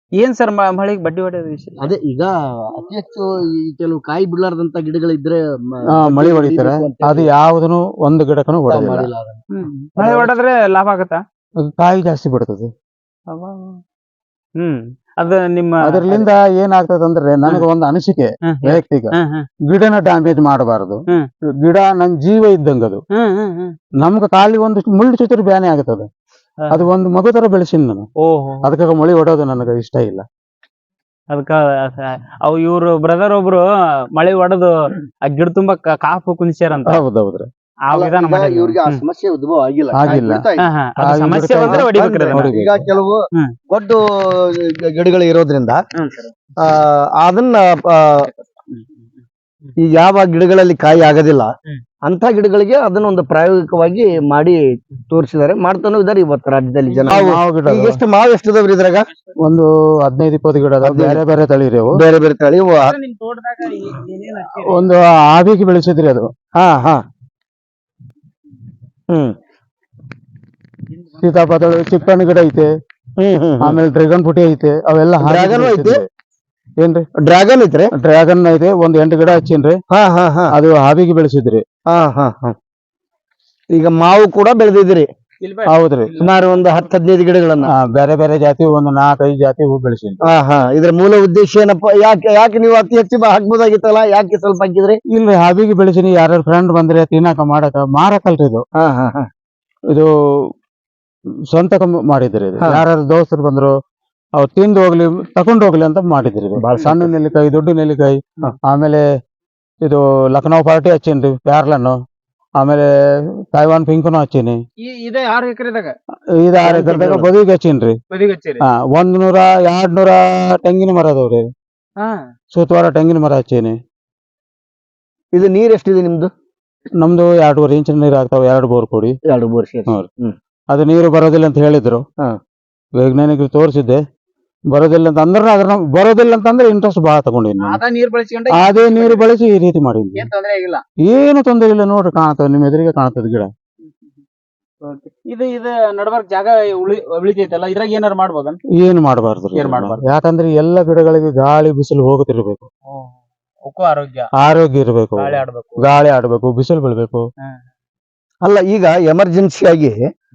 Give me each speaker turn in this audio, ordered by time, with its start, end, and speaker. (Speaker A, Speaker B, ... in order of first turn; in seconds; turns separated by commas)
Speaker A: 0.2-1.8, Speaker B: 1.8-7.3, Speaker C: 5.9-9.1, Speaker B: 8.7-9.4, Speaker A: 9.5-11.2, Speaker B: 10.0-10.3, Speaker C: 11.6-12.7, Speaker A: 13.3-13.8, Speaker A: 14.6-16.0, Speaker C: 15.8-19.1, Speaker A: 18.4-19.4, Speaker C: 19.7-21.0, Speaker C: 21.6-23.0, Speaker A: 23.1-23.7, Speaker C: 24.0-26.1, Speaker C: 26.7-28.1, Speaker A: 28.2-28.7, Speaker C: 28.6-30.2, Speaker A: 31.3-37.0, Speaker C: 36.9-37.5, Speaker A: 37.9-39.0, Speaker B: 37.9-40.7, Speaker C: 39.9-40.4, Speaker A: 40.6-42.5, Speaker C: 41.0-42.9, Speaker B: 41.7-43.2, Speaker B: 43.7-45.8, Speaker A: 46.0-46.3, Speaker B: 46.6-48.3, Speaker B: 49.8-51.5, Speaker B: 52.1-59.0, Speaker C: 57.1-58.0, Speaker C: 59.4-62.0, Speaker B: 60.8-61.2, Speaker B: 62.0-62.9, Speaker A: 62.8-64.9, Speaker C: 64.6-66.3, Speaker B: 66.6-67.0, Speaker B: 69.1-69.3, Speaker C: 71.2-72.7, Speaker B: 73.2-73.8, Speaker C: 73.6-76.0, Speaker B: 75.2-76.0, Speaker B: 77.2-77.9, Speaker C: 77.9-79.8, Speaker B: 79.9-80.5, Speaker C: 80.5-81.6, Speaker B: 81.9-82.5, Speaker B: 83.7-85.1, Speaker A: 85.4-86.6, Speaker C: 85.7-86.1, Speaker B: 86.2-87.7, Speaker C: 87.7-90.2, Speaker B: 90.2-95.0, Speaker C: 95.1-98.6, Speaker B: 98.8-99.3, Speaker C: 101.5-103.7, Speaker C: 104.4-109.0, Speaker B: 106.6-107.1, Speaker C: 109.8-112.0, Speaker C: 112.6-112.9, Speaker C: 113.5-114.6, Speaker A: 114.8-115.9, Speaker C: 116.4-118.0, Speaker A: 116.6-117.1, Speaker A: 118.1-118.6, Speaker C: 118.6-121.4, Speaker C: 122.5-123.8, Speaker B: 125.3-126.3, Speaker C: 127.0-129.2, Speaker B: 129.3-130.3, Speaker C: 130.7-132.0, Speaker C: 133.0-134.0, Speaker C: 134.7-137.8, Speaker A: 137.6-139.3, Speaker C: 138.5-140.3, Speaker A: 140.1-140.8, Speaker C: 141.0-143.5, Speaker A: 144.8-148.6, Speaker C: 148.8-152.7, Speaker A: 149.5-150.1, Speaker A: 152.9-154.3, Speaker C: 154.4-157.2, Speaker A: 155.2-155.9, Speaker B: 158.4-160.0